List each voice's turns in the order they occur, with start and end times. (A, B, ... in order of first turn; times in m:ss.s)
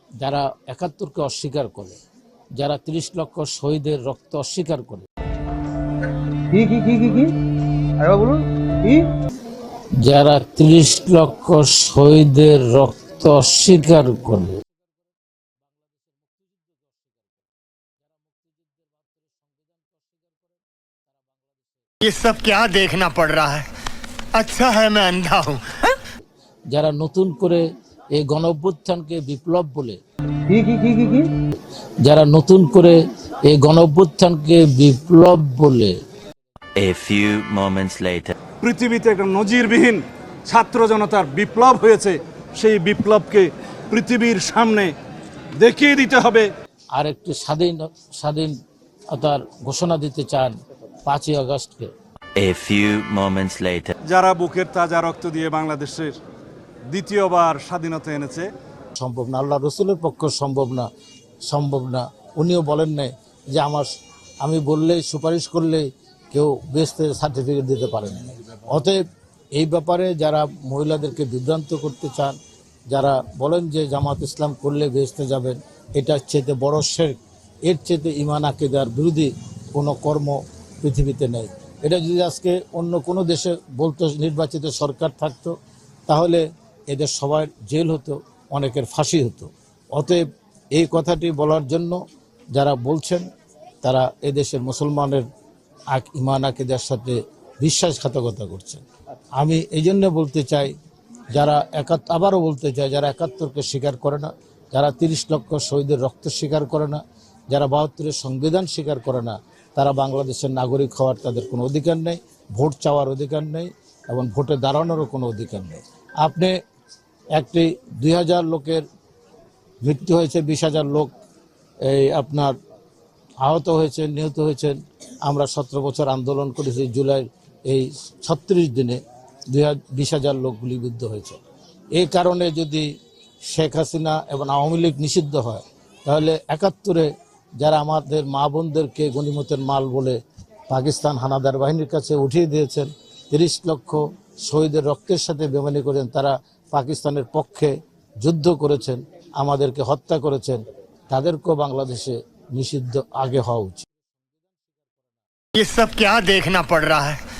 0:00.2-0:02.0 A
0:02.6-0:05.1 A
0:06.5-0:07.3 B
0:08.0-0:09.1 B
0:10.0-0:14.6 A
0:22.0-0:23.7 C
0:24.3-0:26.0 C
0:26.7-0:30.0 A
0:30.5-0:31.3 B
0:32.0-0:36.0 A
0:36.8-0:38.4 D
0:38.6-0:45.0 E
0:45.6-0:46.5 E
0:46.9-0:48.6 A
0:49.1-0:51.9 A
0:52.4-0:53.9 D
0:54.0-0:56.2 E
0:56.9-0:58.5 E
0:59.0-1:00.9 A
1:01.5-1:03.9 A
1:04.4-1:09.0 A
1:09.6-1:12.4 A
1:12.9-1:25.5 A
1:26.1-1:30.2 A
1:30.8-1:32.0 A
1:32.6-1:33.3 A
1:33.8-1:35.2 A
1:35.9-1:38.8 A
1:39.4-1:40.7 A
1:41.4-1:47.0 A
1:47.5-1:56.6 A
1:57.4-1:58.8 A
1:59.8-2:01.1 A
2:01.9-2:02.6 A
2:03.4-2:09.0 A
2:09.5-2:11.4 A
2:12.0-2:12.9 A
2:13.5-2:20.2 A
2:20.7-2:33.9 A
2:35.6-2:37.2 C